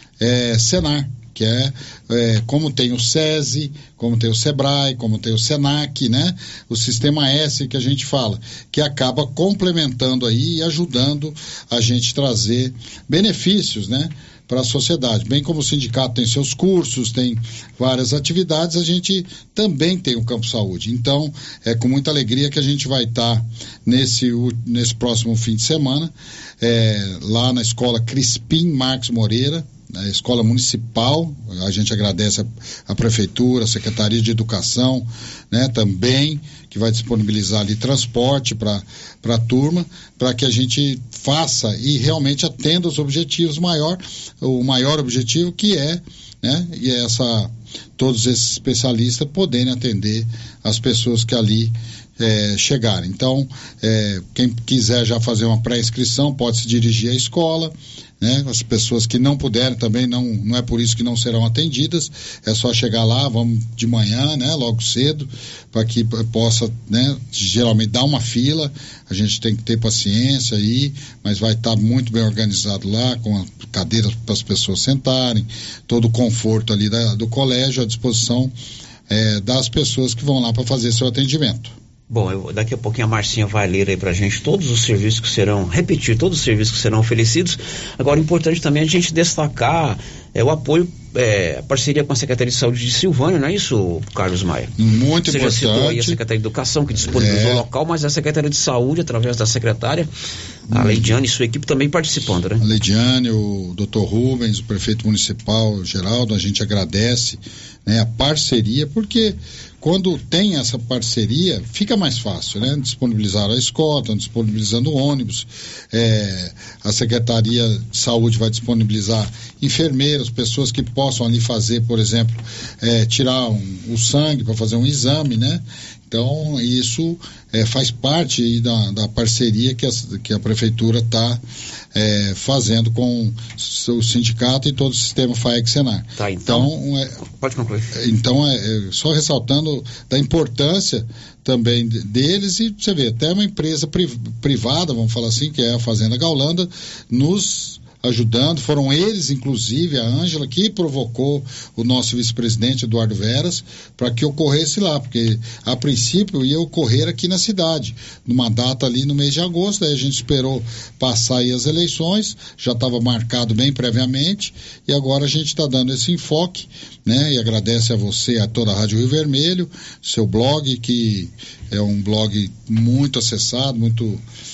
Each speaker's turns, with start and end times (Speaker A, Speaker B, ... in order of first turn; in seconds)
Speaker A: 0.2-78.5, 79.1-81.7, 94.8-96.2, 97.0-97.6, 100.7-101.1, 102.6-131.4, 131.9-137.2, 137.9-174.2
Speaker B: 82.1-94.7, 95.2-100.1, 100.7-102.6, 136.2-136.7, 137.3-137.9